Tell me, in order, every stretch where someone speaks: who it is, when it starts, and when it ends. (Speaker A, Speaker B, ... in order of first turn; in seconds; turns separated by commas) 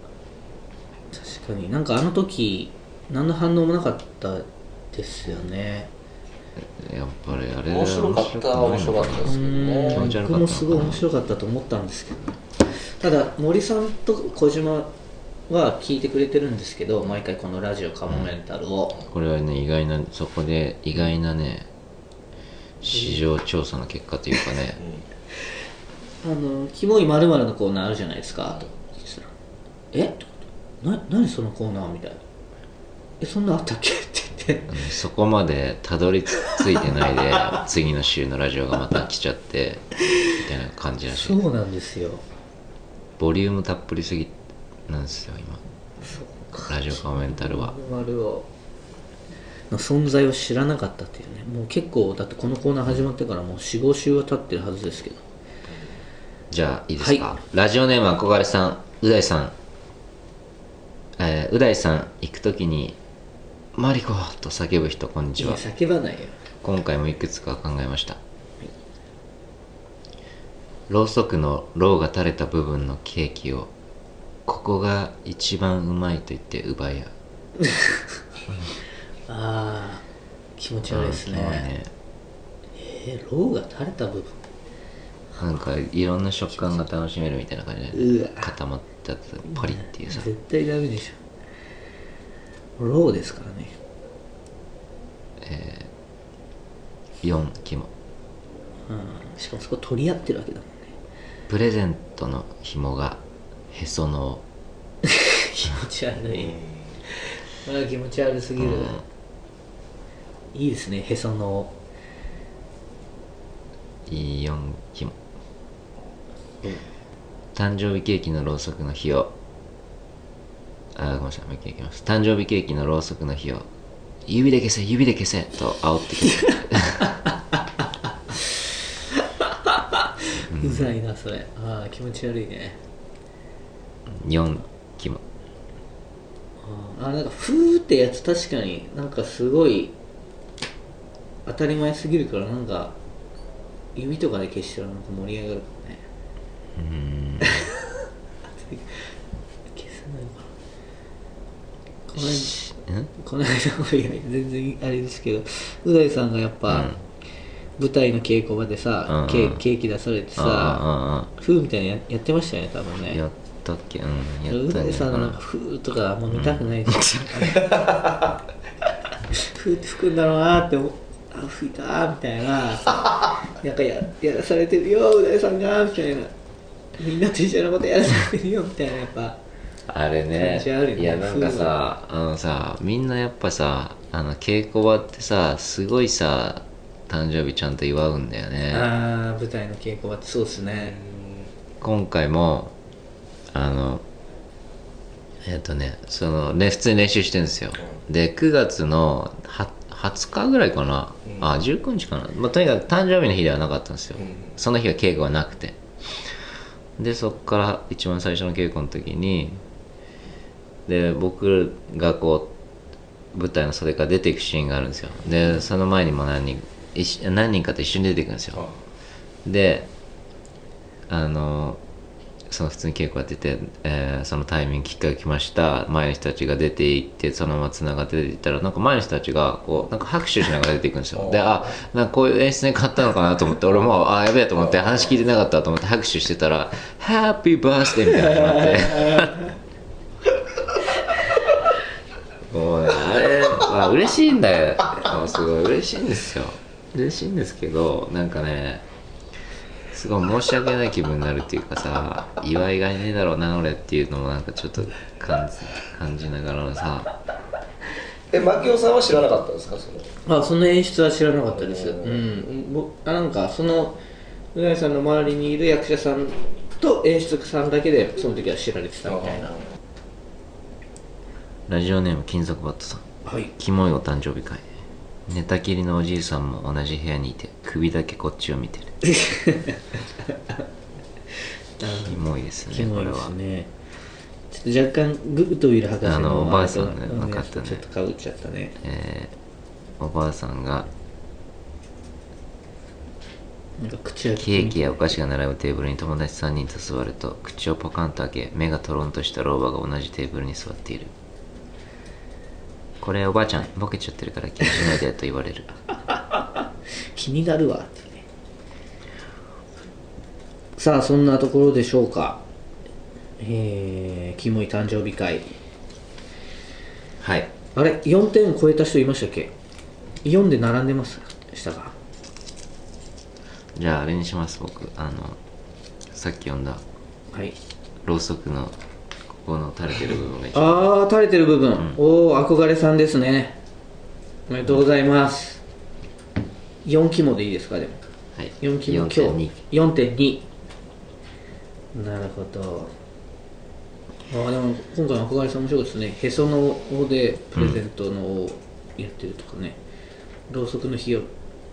Speaker A: 1.1-5.9, Speaker B: 6.6-9.3, Speaker C: 7.7-10.1, Speaker A: 9.3-14.9, Speaker B: 9.9-11.0, Speaker A: 15.5-19.0, Speaker B: 19.1-21.7, Speaker B: 22.8-24.8, Speaker A: 22.9-23.2, Speaker A: 26.2-29.3, Speaker A: 29.9-32.2, Speaker A: 33.2-34.8, Speaker B: 34.7-41.4, Speaker A: 41.1-42.2, Speaker B: 43.2-44.3, Speaker B: 44.9-45.6, Speaker A: 46.0-48.5, Speaker B: 46.7-47.8, Speaker A: 49.7-55.2, Speaker B: 56.5-59.5, Speaker A: 57.0-57.3, Speaker B: 61.2-63.0, Speaker B: 63.8-65.6, Speaker A: 65.4-66.4, Speaker B: 66.6-68.2, Speaker B: 70.9-73.7, Speaker B: 74.5-77.1, Speaker A: 79.3-80.0, Speaker A: 80.6-81.7, Speaker B: 80.9-81.9, Speaker A: 82.8-84.4, Speaker B: 85.4-90.3, Speaker A: 87.9-88.5, Speaker A: 89.5-91.2, Speaker A: 92.8-93.8, Speaker B: 95.4-95.9, Speaker B: 97.2-97.9, Speaker A: 98.9-100.9, Speaker B: 101.5-104.4, Speaker A: 105.0-106.6, Speaker C: 106.5-106.9, Speaker A: 107.2-109.0, Speaker B: 108.6-109.0, Speaker A: 110.5-111.7, Speaker B: 114.1-115.2, Speaker B: 117.5-119.3, Speaker B: 121.0-123.7, Speaker B: 124.3-127.1, Speaker A: 129.2-132.8, Speaker B: 130.5-130.9, Speaker B: 134.1-135.2, Speaker A: 136.6-139.9, Speaker A: 141.5-143.0, Speaker A: 143.9-146.0, Speaker B: 146.8-147.7, Speaker A: 147.4-147.8, Speaker A: 148.6-149.1, Speaker A: 149.7-150.5, Speaker A: 152.1-156.9, Speaker B: 152.2-153.1, Speaker B: 156.7-157.0, Speaker A: 157.8-160.8, Speaker B: 159.1-159.6, Speaker B: 160.4-161.3, Speaker A: 161.4-163.2, Speaker B: 163.1-165.4, Speaker A: 164.5-167.9, Speaker B: 166.3-167.7, Speaker A: 169.4-176.3, Speaker A: 177.0-179.4, Speaker B: 179.9-188.9, Speaker A: 180.3-181.8, Speaker A: 188.7-191.0, Speaker C: 190.9-191.5, Speaker B: 191.8-192.8, Speaker B: 193.5-194.1, Speaker B: 195.4-205.8, Speaker B: 207.0-209.6, Speaker B: 210.9-212.5, Speaker B: 213.3-218.7, Speaker B: 219.4-219.9, Speaker B: 221.1-221.8, Speaker B: 222.5-239.5, Speaker B: 242.5-248.8, Speaker B: 249.9-257.1, Speaker C: 258.3-260.1, Speaker A: 260.3-264.0, Speaker C: 261.6-262.4, Speaker A: 264.5-269.6, Speaker B: 271.7-274.6, Speaker A: 273.2-273.5, Speaker B: 275.3-278.9, Speaker A: 279.0-279.9, Speaker A: 281.8-283.7, Speaker B: 282.0-283.4, Speaker A: 284.5-288.8, Speaker B: 286.0-287.8, Speaker B: 288.8-289.4, Speaker B: 290.0-290.9, Speaker A: 293.8-295.2, Speaker B: 294.4-301.1, Speaker B: 303.0-305.7, Speaker A: 306.1-306.6, Speaker A: 307.1-308.3, Speaker A: 310.8-312.4, Speaker A: 313.4-315.5, Speaker B: 317.2-317.5, Speaker A: 317.7-319.5, Speaker A: 320.2-321.9, Speaker B: 323.8-325.4, Speaker B: 326.1-326.8, Speaker A: 327.3-327.6, Speaker B: 328.0-328.8, Speaker B: 329.4-330.9, Speaker A: 330.5-333.6, Speaker A: 334.5-335.6, Speaker A: 336.9-338.0, Speaker B: 338.4-339.6, Speaker A: 338.6-340.5, Speaker A: 341.9-342.9, Speaker A: 344.3-349.8, Speaker A: 350.5-351.3